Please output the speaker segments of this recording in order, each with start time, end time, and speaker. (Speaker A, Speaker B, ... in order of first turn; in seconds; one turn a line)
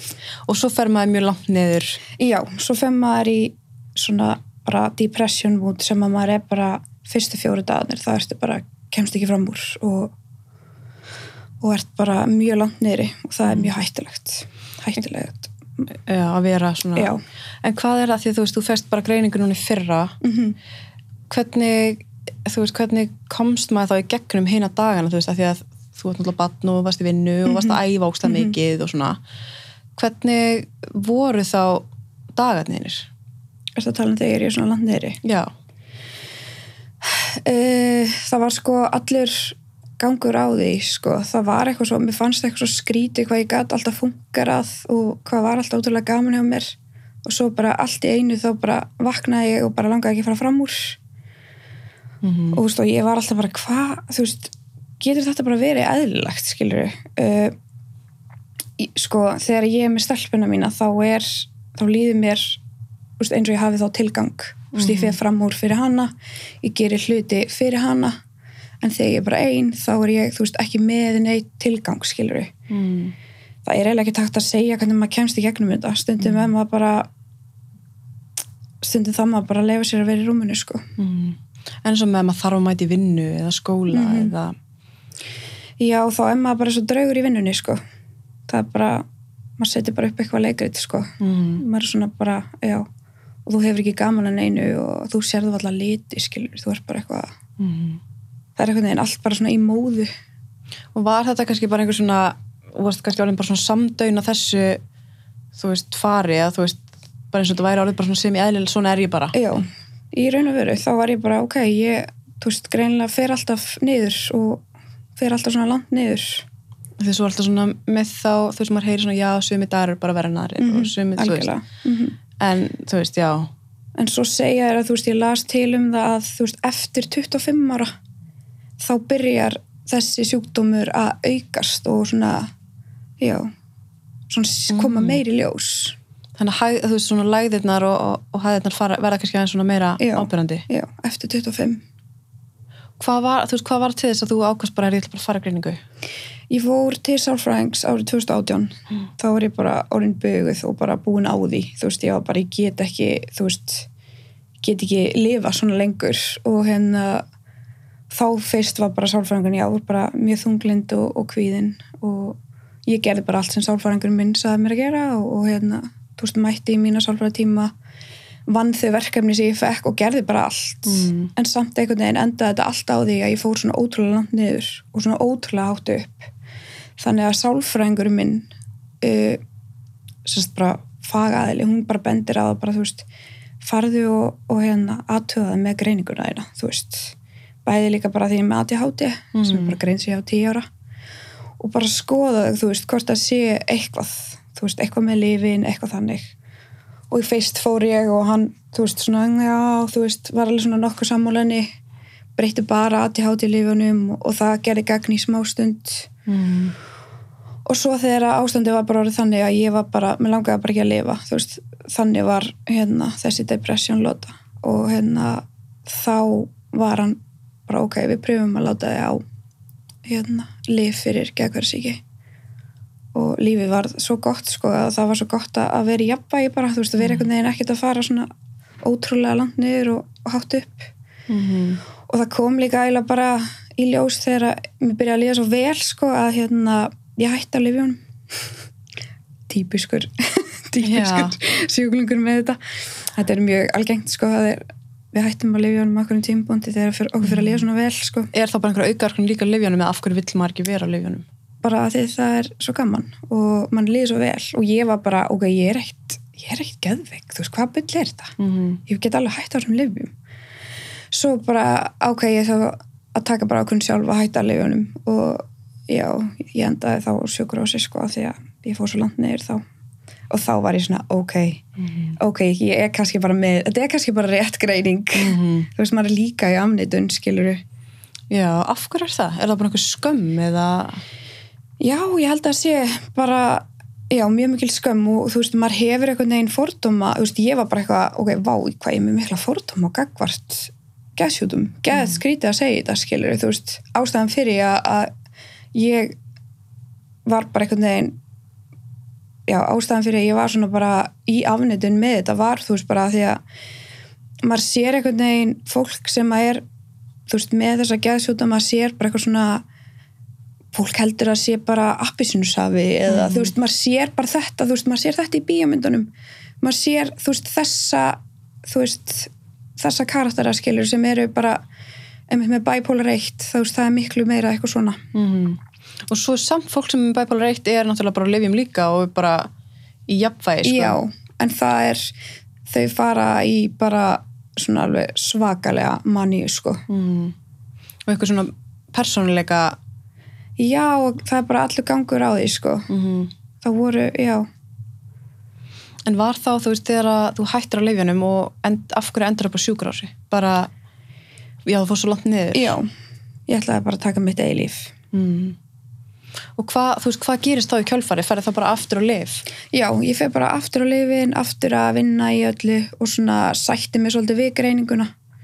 Speaker A: 0.5-2.0
Speaker B: 2.2-10.1
Speaker B: 11.6-15.5
Speaker A: 15.9-20.2
Speaker B: 20.2-20.6
Speaker A: 21.3-29.2
Speaker B: 27.5-28.5
Speaker A: 29.9-33.1
Speaker B: 33.8-35.2
Speaker A: 35.2-35.5
Speaker B: 37.0-51.0
Speaker A: 52.2-52.6
Speaker B: 52.5-57.5
Speaker B: 58.8-62.6
Speaker B: 63.2-68.2
Speaker A: 64.7-65.2
Speaker B: 68.8-72.5
Speaker A: 72.7-73.1
Speaker B: 73.6-77.1
Speaker B: 78.8-80.8
Speaker A: 81.0-84.5
Speaker B: 83.9-84.3
Speaker B: 85.8-87.8
Speaker B: 88.5-89.0
Speaker B: 89.6-92.9
Speaker A: 91.2-91.6
Speaker B: 93.5-97.3
Speaker A: 97.6-98.0
Speaker B: 98.6-100.1
Speaker A: 100.9-104.8
Speaker A: 105.5-109.3
Speaker B: 109.3-114.6
Speaker B: 115.2-116.5
Speaker A: 117.0-121.5
Speaker B: 120.6-122.2
Speaker A: 122.4-123.5
Speaker B: 124.0-127.9
Speaker B: 128.8-132.5
Speaker B: 133.2-133.5
Speaker B: 134.3-135.9
Speaker A: 134.7-135.2
Speaker A: 136.4-140.6
Speaker B: 140.0-141.8
Speaker A: 143.0-145.8
Speaker B: 146.5-153.9
Speaker B: 154.6-157.2
Speaker B: 158.1-167.7
Speaker B: 168.5-176.3
Speaker A: 170.9-171.3
Speaker B: 177.0-178.5
Speaker B: 179.0-179.4
Speaker B: 180.2-183.1
Speaker B: 183.6-190.7
Speaker A: 189.3-189.8
Speaker B: 191.6-196.3
Speaker B: 197.1-201.7
Speaker B: 202.3-206.1
Speaker A: 206.2-206.7
Speaker B: 207.7-219.2
Speaker B: 220.0-222.0
Speaker B: 223.1-228.3
Speaker A: 227.0-227.2
Speaker B: 228.8-230.9
Speaker A: 231.3-231.8
Speaker B: 232.1-238.0
Speaker B: 239.5-242.6
Speaker A: 240.8-241.3
Speaker B: 243.1-248.3
Speaker A: 247.2-247.5
Speaker A: 248.3-251.2
Speaker B: 251.6-258.3
Speaker A: 258.4-258.8
Speaker B: 258.9-260.1
Speaker B: 261.1-269.6
Speaker B: 270.3-271.6
Speaker B: 272.2-277.6
Speaker A: 275.1-275.7
Speaker A: 278.3-281.0
Speaker B: 281.8-295.1
Speaker B: 295.7-296.1
Speaker B: 297.2-298.2
Speaker B: 299.5-303.4
Speaker B: 304.4-306.6
Speaker B: 307.3-309.6
Speaker B: 310.7-316.1
Speaker A: 313.1-313.5
Speaker B: 316.6-321.6
Speaker B: 322.3-325.0
Speaker A: 325.1-329.5
Speaker A: 330.1-331.0
Speaker B: 330.6-332.1
Speaker B: 332.7-336.8
Speaker A: 336.9-337.3
Speaker A: 338.1-339.8
Speaker B: 340.6-342.9
Speaker A: 342.9-343.3
Speaker B: 343.6-344.4
Speaker A: 346.1-350.7
Speaker A: 351.6-352.8
Speaker B: 352.5-352.9
Speaker B: 353.5-354.9
Speaker A: 355.1-355.6
Speaker A: 356.6-359.4
Speaker B: 359.7-365.1